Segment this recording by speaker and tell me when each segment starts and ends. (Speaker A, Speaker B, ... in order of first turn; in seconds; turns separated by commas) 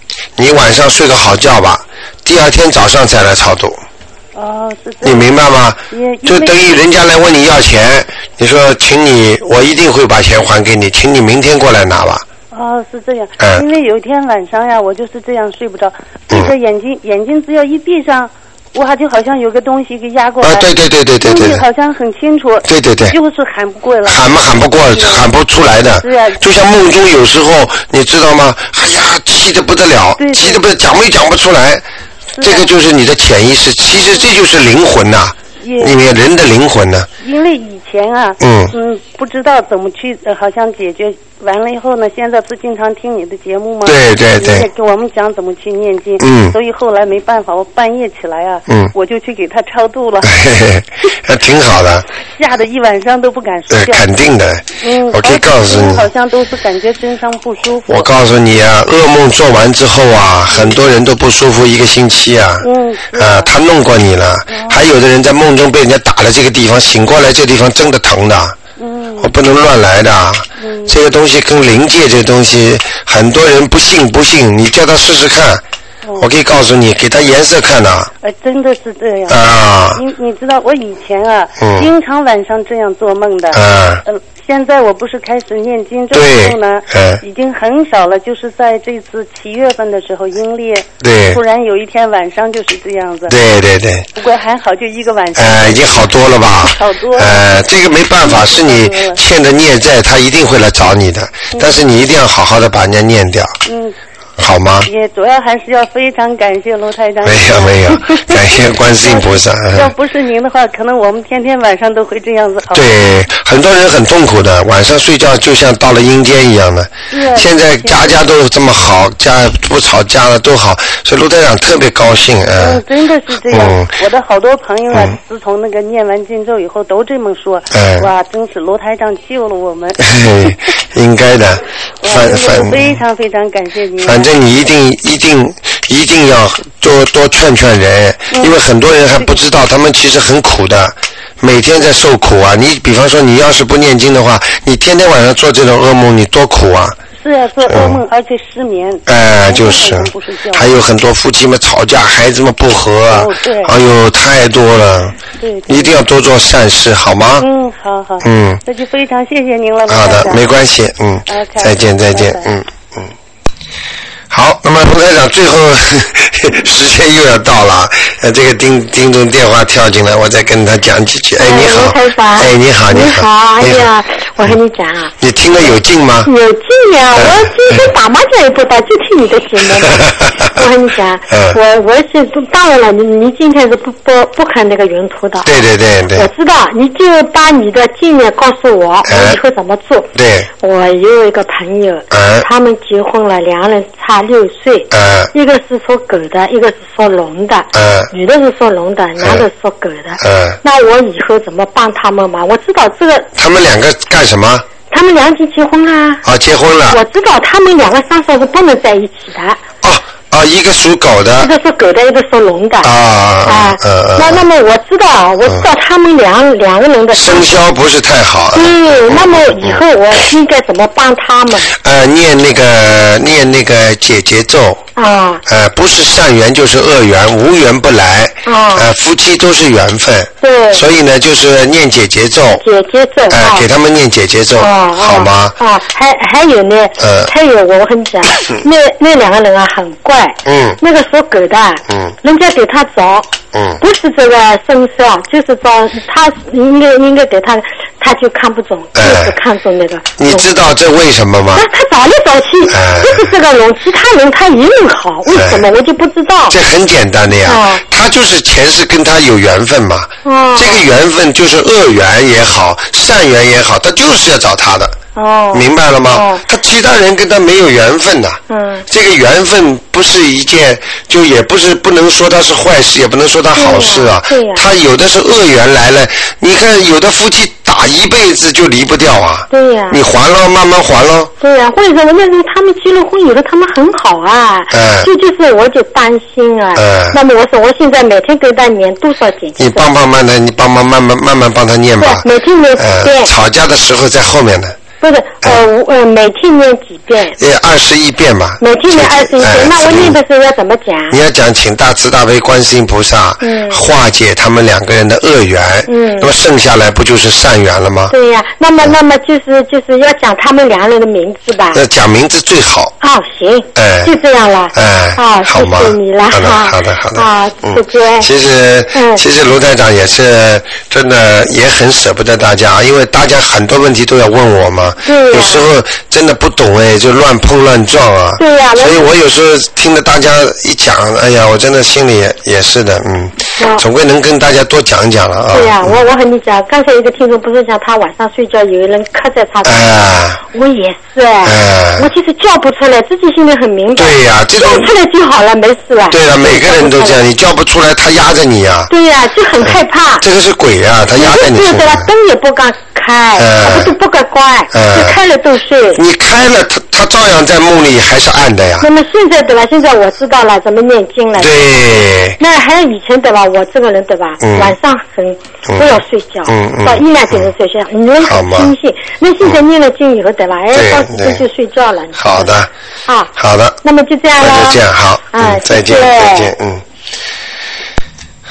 Speaker A: 0.4-3.8, Speaker B: 4.3-5.4, Speaker A: 5.0-12.2, Speaker B: 5.9-6.5, Speaker B: 12.5-24.3, Speaker A: 13.4-13.6, Speaker A: 20.4-21.6, Speaker A: 22.7-23.1, Speaker A: 24.1-31.8, Speaker B: 24.8-25.3, Speaker B: 26.0-26.4, Speaker B: 30.2-30.6, Speaker B: 32.3-32.7, Speaker A: 32.4-37.1, Speaker B: 33.9-34.3, Speaker B: 35.6-36.0, Speaker B: 37.2-50.3, Speaker A: 38.4-38.7, Speaker A: 43.8-44.7, Speaker A: 46.2-46.5, Speaker A: 48.7-48.9, Speaker A: 50.2-52.0, Speaker B: 52.3-54.0, Speaker A: 53.7-56.1, Speaker B: 54.8-58.1, Speaker A: 57.9-68.6, Speaker B: 60.5-60.8, Speaker B: 62.6-63.5, Speaker B: 64.5-64.8, Speaker B: 68.8-69.3, Speaker A: 69.2-75.6, Speaker B: 70.6-71.0, Speaker A: 76.2-78.1, Speaker B: 78.2-79.4, Speaker A: 79.3-80.0, Speaker B: 79.9-93.3, Speaker A: 81.6-81.9, Speaker A: 83.5-84.0, Speaker A: 86.1-87.2, Speaker A: 91.0-91.4, Speaker A: 93.3-94.1, Speaker B: 94.1-97.5, Speaker A: 95.4-103.5, Speaker B: 98.2-99.2, Speaker B: 101.5-101.8, Speaker B: 103.7-104.0, Speaker A: 104.4-104.9, Speaker B: 104.8-113.0, Speaker A: 107.2-109.9, Speaker A: 112.7-122.8, Speaker B: 117.1-118.2, Speaker B: 122.6-130.7, Speaker A: 123.5-123.9, Speaker A: 127.7-128.1, Speaker A: 130.1-133.0, Speaker B: 132.0-134.3, Speaker A: 134.0-147.0, Speaker B: 139.1-139.5, Speaker B: 147.2-150.7, Speaker A: 147.6-148.0, Speaker A: 149.1-157.5, Speaker B: 153.1-153.8, Speaker B: 155.4-156.0, Speaker B: 157.4-160.5, Speaker A: 158.2-158.6, Speaker A: 159.9-163.1, Speaker B: 161.3-162.5, Speaker A: 164.3-173.9, Speaker C: 171.4-175.1, Speaker A: 175.2-176.3, Speaker C: 176.2-185.5, Speaker A: 177.1-177.9, Speaker A: 179.8-180.6, Speaker A: 181.3-181.6, Speaker A: 185.4-186.3, Speaker C: 186.1-203.3, Speaker A: 189.1-189.4, Speaker A: 190.1-190.5, Speaker A: 192.1-192.5, Speaker A: 194.9-195.3, Speaker A: 197.7-198.1, Speaker A: 199.2-199.4, Speaker A: 200.2-200.6, Speaker A: 203.4-204.7, Speaker C: 204.9-206.2, Speaker A: 206.2-207.0, Speaker C: 206.9-209.6, Speaker A: 209.8-211.5, Speaker C: 211.4-212.9, Speaker A: 212.8-214.4, Speaker C: 213.4-217.5, Speaker A: 217.1-219.8, Speaker C: 218.5-221.7, Speaker A: 221.7-224.8, Speaker C: 224.9-225.4, Speaker A: 225.4-232.6, Speaker C: 228.4-228.9, Speaker C: 230.4-230.8, Speaker C: 232.6-233.7, Speaker A: 233.3-235.6, Speaker C: 234.6-250.5, Speaker A: 237.0-237.3, Speaker A: 240.4-240.8, Speaker A: 243.5-243.8, Speaker A: 248.9-249.4, Speaker A: 250.2-251.7, Speaker C: 251.6-256.6, Speaker A: 252.7-253.3, Speaker A: 255.3-255.7, Speaker A: 256.5-265.0, Speaker C: 257.4-257.8, Speaker C: 260.2-260.8, Speaker C: 265.1-266.4, Speaker A: 265.5-281.3, Speaker C: 268.5-268.8, Speaker C: 273.5-274.6, Speaker C: 279.5-280.0, Speaker C: 281.4-289.9, Speaker A: 284.7-285.1, Speaker A: 286.7-287.2, Speaker A: 289.6-292.3, Speaker C: 292.0-293.3, Speaker A: 292.8-294.8, Speaker C: 295.0-297.4, Speaker A: 297.4-300.2, Speaker C: 298.6-301.2, Speaker A: 301.1-308.1, Speaker C: 303.4-303.8, Speaker C: 305.9-306.3, Speaker C: 308.1-311.8, Speaker A: 311.7-312.9, Speaker C: 313.0-318.3, Speaker A: 313.7-314.1, Speaker A: 314.7-336.0, Speaker C: 318.9-319.2, Speaker C: 325.0-325.6, Speaker C: 328.4-329.1, Speaker C: 333.6-333.8, Speaker C: 335.5-347.2, Speaker A: 339.6-340.4, Speaker A: 341.4-342.1, Speaker A: 343.9-344.9, Speaker A: 346.1-348.9, Speaker C: 348.9-350.2, Speaker A: 349.6-352.1, Speaker C: 351.2-356.0, Speaker A: 353.4-353.9, Speaker A: 354.7-355.2, Speaker A: 355.9-358.9, Speaker C: 358.8-361.6, Speaker A: 361.4-362.4, Speaker C: 362.4-372.5, Speaker A: 364.4-364.8, Speaker A: 365.7-367.5, Speaker A: 368.2-368.7, Speaker A: 370.7-371.4, Speaker A: 372.1-372.7, Speaker C: 373.1-373.3, Speaker A: 373.3-373.8, Speaker C: 373.8-376.5, Speaker A: 374.4-376.8